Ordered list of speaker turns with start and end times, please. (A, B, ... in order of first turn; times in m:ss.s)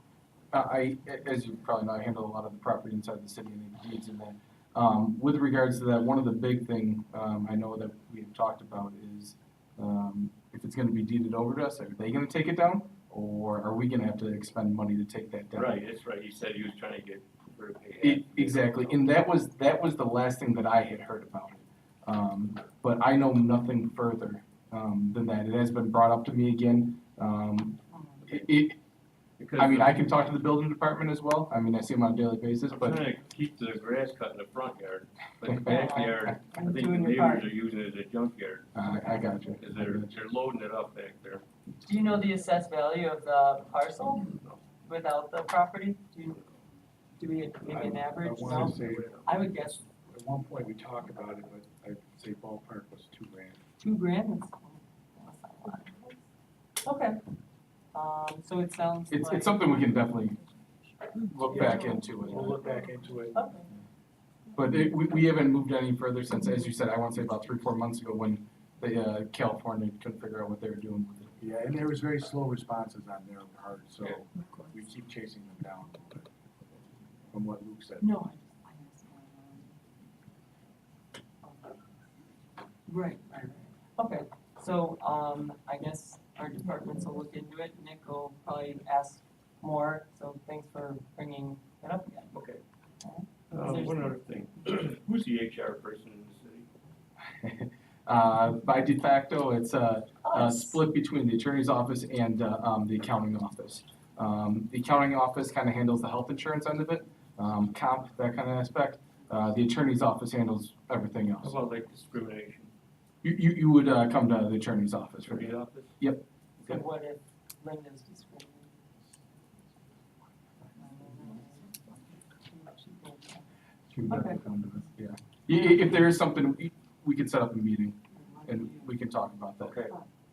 0:00.5-0:15.8 A
0:15.6-0:19.1 B
0:18.0-0:28.8 A
0:27.9-0:28.2 C
0:29.4-0:30.2 B
0:29.6-0:33.0 A
0:32.7-0:39.0 B
0:35.5-0:36.3 A
0:35.6-0:37.5 C
0:38.8-0:40.1 A
0:39.6-0:41.4 B
0:41.8-0:44.3 C
0:44.2-0:44.6 B
0:44.8-0:46.4 C
0:47.2-0:49.9 C
0:47.6-0:49.3 B
0:47.7-0:49.3 D
0:50.1-0:53.6 D
0:53.8-0:56.1 C
0:56.8-0:57.2 C
0:57.9-0:59.8 C
0:59.1-1:00.4 A
1:01.1-1:02.6 A
1:01.5-1:02.4 C
1:02.3-1:03.4 D
1:03.3-1:03.7 C
1:04.6-1:11.4 A
1:11.4-1:16.2 D
1:17.3-1:18.1 D
1:18.0-1:19.8 C
1:21.4-1:21.8 C
1:22.9-1:32.3 C
1:32.3-1:32.6 B
1:33.0-1:34.2 C
1:33.5-1:36.7 B
1:37.4-1:51.6 A
1:40.2-1:40.8 C
1:51.4-1:52.7 B
1:53.2-1:56.2 A
1:55.2-1:56.0 B
1:56.6-1:58.7 C
2:00.8-2:03.5 C
2:03.9-2:09.8 A
2:04.1-2:04.4 C
2:08.2-2:08.9 C
2:09.6-2:09.9 B